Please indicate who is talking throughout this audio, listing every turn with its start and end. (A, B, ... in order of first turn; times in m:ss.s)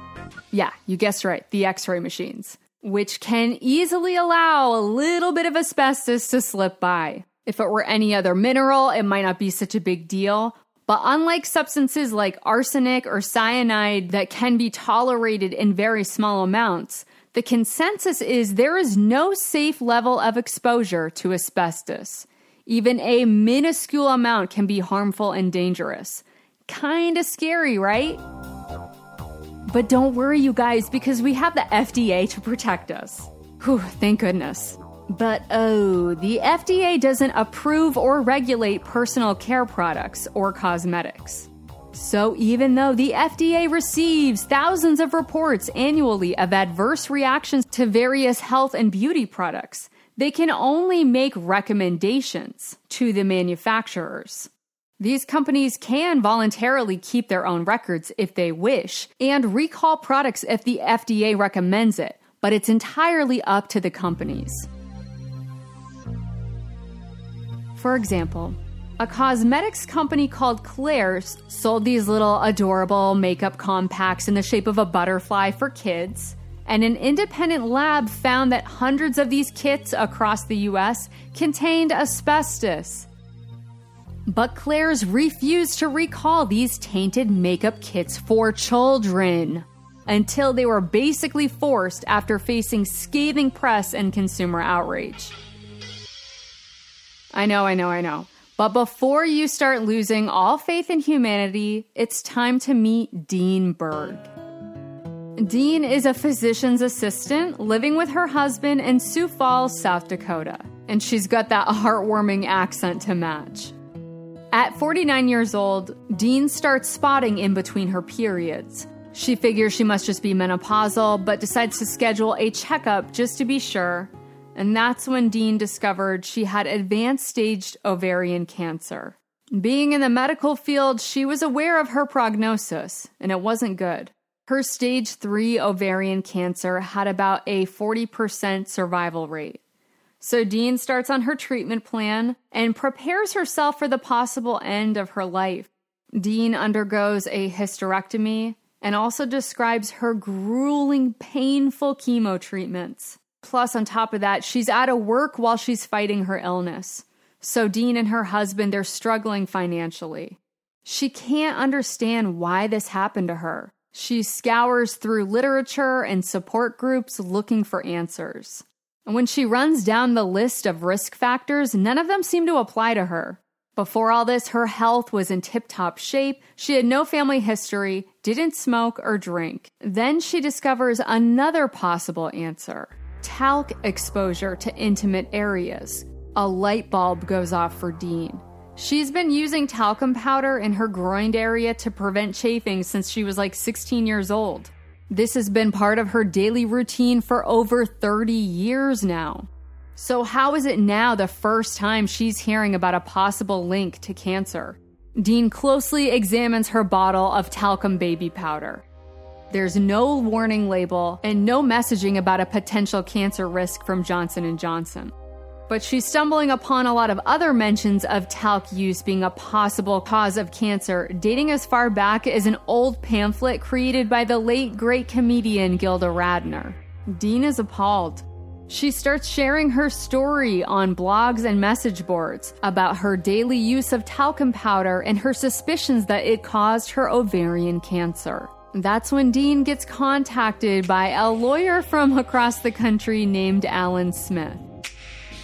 0:00.5-0:28.2 A
0:29.7-1:04.7 A
1:07.8-1:23.1 A
1:24.3-1:35.4 A
1:37.3-1:44.3 A
1:45.4-1:53.8 A
1:54.5-2:19.6 A
2:20.2-3:28.8 A
3:29.5-3:35.1 A
3:35.7-4:04.7 A